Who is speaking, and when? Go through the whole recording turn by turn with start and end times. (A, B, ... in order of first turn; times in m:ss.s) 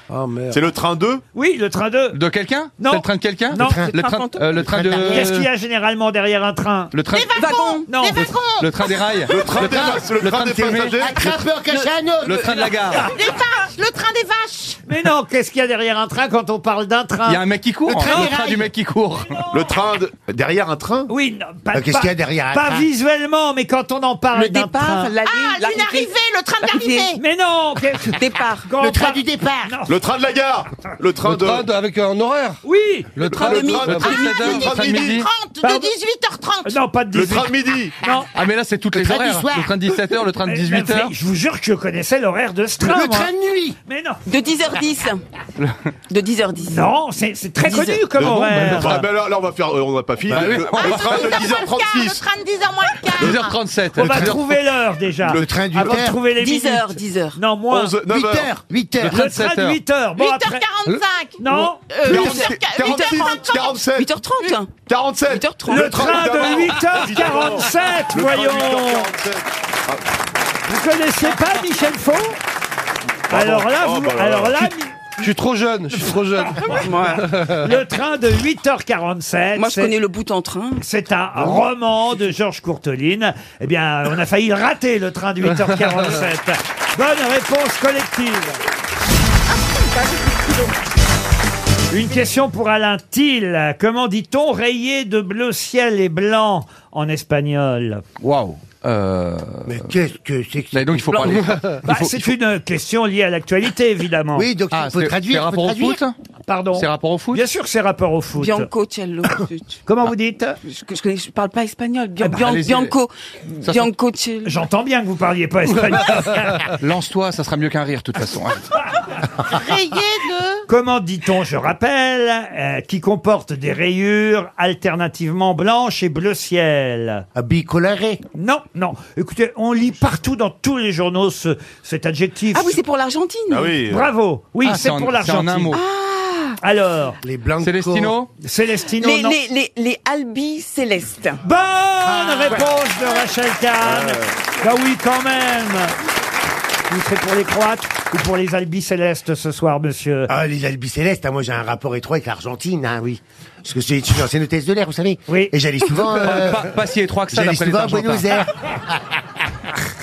0:00.1-0:00.7 A
0:00.5-0:01.2 B
0:01.3-0:02.2 C
0:02.1-0:05.5 D
0:02.8-0:03.8 C
0:03.5-0:05.3 E
0:03.9-0:04.4 F
0:05.0-0:06.9 C
0:06.9-0:07.4 D
0:07.1-0:09.1 G
0:07.4-0:07.8 F
0:07.9-0:08.3 C
0:08.6-0:11.0 D
0:09.2-0:11.4 B
0:11.0-0:12.6 E
0:11.7-0:12.7 F
0:12.2-0:13.1 D
0:13.0-0:14.8 G
0:14.8-0:18.6 C
0:17.3-0:19.5 D
0:17.9-0:18.6 E
0:19.5-0:21.1 B
0:21.1-0:25.1 C
0:21.7-0:22.8 E
0:24.3-0:27.2 F
0:25.2-0:27.2 G
0:27.2-0:30.0 C
0:28.1-0:28.7 F
0:28.8-0:29.7 E
0:29.8-0:31.7 B
0:31.2-0:32.6 A
0:32.6-0:33.4 C
0:33.1-0:34.1 A
0:33.3-0:35.2 B
0:33.3-0:34.6 F
0:34.0-0:36.8 G
0:34.0-0:35.3 D
0:35.6-0:35.9 C
0:36.6-0:38.3 C
0:37.1-0:38.0 B
0:38.3-0:41.1 D
0:38.9-0:39.8 E
0:40.4-0:43.3 C
0:42.8-0:43.8 E
0:43.8-0:44.2 C
0:44.3-0:45.2 F
0:46.1-0:46.8 F
0:46.6-0:49.0 C
0:48.1-0:52.2 B
0:50.3-0:51.2 D
0:50.8-0:53.6 G
0:53.2-0:54.4 D
0:53.9-0:57.9 C
0:54.0-0:54.3 B
0:55.2-0:56.0 B
0:55.3-0:56.2 E
0:56.4-0:57.4 F
0:57.7-0:58.5 B
0:58.1-0:59.2 E
0:59.0-0:59.8 D
0:59.1-1:00.6 C
1:00.2-1:01.4 G
1:01.4-1:02.0 C
1:01.9-1:04.7 F
1:02.0-1:03.7 G
1:02.0-1:04.1 B
1:04.8-1:10.0 B
1:05.3-1:06.4 F
1:05.6-1:09.1 C
1:10.7-1:12.4 C
1:13.3-1:14.7 B
1:13.3-1:15.2 C
1:15.2-1:17.7 A
1:16.6-1:17.3 F
1:17.5-1:19.9 C
1:19.5-1:20.8 F
1:20.8-1:28.6 C
1:31.9-1:38.0 C
1:38.2-1:39.8 D
1:39.6-1:41.6 E
1:40.7-1:42.3 D
1:41.8-1:44.4 C
1:44.3-1:46.0 E
1:44.7-1:46.1 D
1:46.5-1:48.7 C
1:46.7-1:47.4 D
1:48.4-1:49.8 F
1:49.9-1:50.6 C
1:50.6-1:54.6 F
1:52.2-1:52.6 C
1:52.4-1:52.9 D
1:53.6-1:53.9 D
1:54.4-1:56.7 C
1:56.8-1:58.6 D
1:59.4-2:00.6 G
2:00.7-2:07.2 C
2:07.3-2:08.2 E
2:08.4-2:12.8 C
2:12.5-2:13.8 F
2:13.5-2:14.1 B
2:13.9-2:15.8 C
2:14.6-2:15.8 D
2:15.7-2:16.6 F
2:16.6-2:17.2 C
2:17.2-2:18.1 E
2:17.6-2:18.3 D
2:18.4-2:19.4 C
2:19.0-2:21.4 F
2:21.4-2:25.9 C
2:22.0-2:22.6 E
2:23.8-2:24.3 B
2:26.9-2:30.3 C
2:30.3-2:36.7 E
2:36.2-2:38.3 D
2:37.3-2:39.2 E